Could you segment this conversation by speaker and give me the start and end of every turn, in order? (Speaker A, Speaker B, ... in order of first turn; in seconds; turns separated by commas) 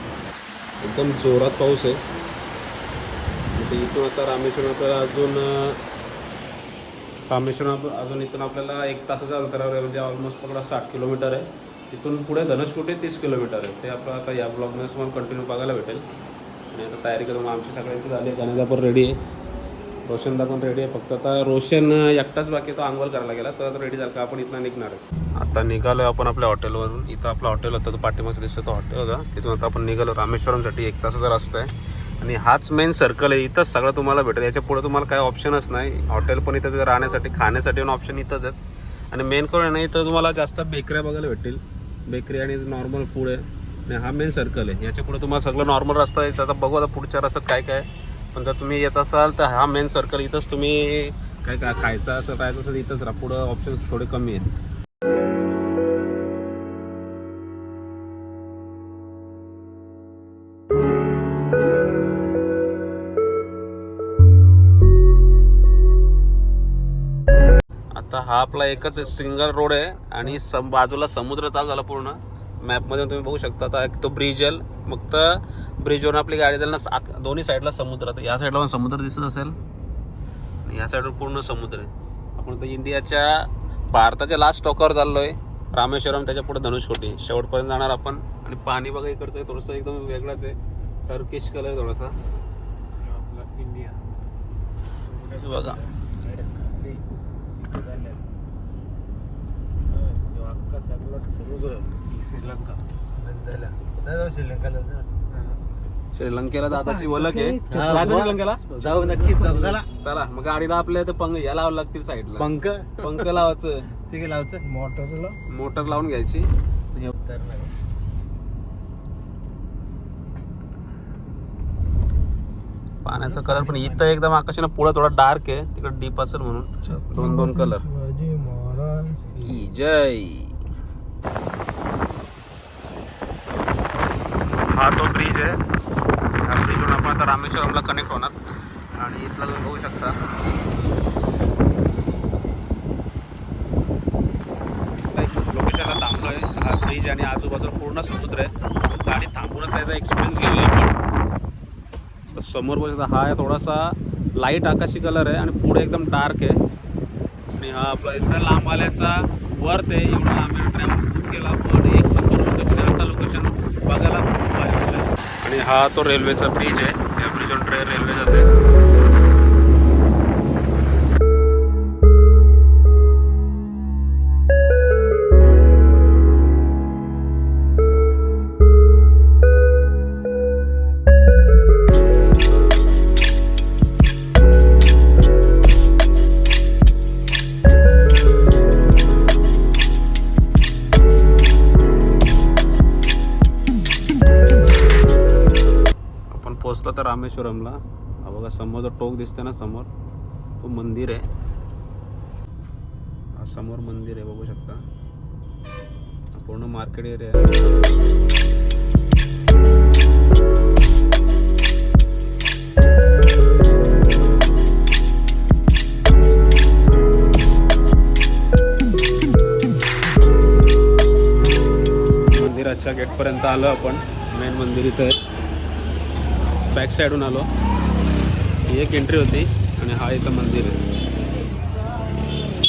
Speaker A: 0.8-2.0, Speaker A: 3.5-5.8, Speaker A: 7.3-16.0, Speaker A: 16.7-19.2, Speaker A: 20.0-38.6, Speaker A: 39.1-54.6, Speaker A: 67.9-79.6, Speaker A: 80.6-90.5, Speaker A: 91.1-92.1, Speaker B: 93.0-94.0, Speaker B: 95.0-97.0, Speaker A: 95.3-95.8, Speaker B: 97.6-98.2, Speaker B: 99.9-102.0, Speaker A: 102.1-102.8, Speaker C: 103.2-105.1, Speaker A: 106.1-108.7, Speaker B: 106.8-109.8, Speaker C: 107.7-109.9, Speaker A: 110.0-113.9, Speaker C: 112.4-113.1, Speaker C: 114.1-114.7, Speaker B: 114.7-115.4, Speaker A: 115.5-117.1, Speaker C: 117.2-117.7, Speaker A: 123.0-128.0, Speaker C: 123.4-123.9, Speaker B: 128.0-129.2, Speaker A: 129.3-130.6, Speaker A: 134.7-135.6, Speaker A: 136.4-138.4, Speaker A: 138.9-140.2, Speaker A: 145.1-151.0, Speaker A: 152.3-156.6, Speaker A: 157.6-168.6, Speaker A: 196.3-199.9, Speaker A: 200.6-201.3, Speaker A: 203.4-204.8, Speaker A: 206.3-207.5, Speaker A: 222.3-225.2, Speaker A: 226.7-227.5, Speaker A: 228.7-230.8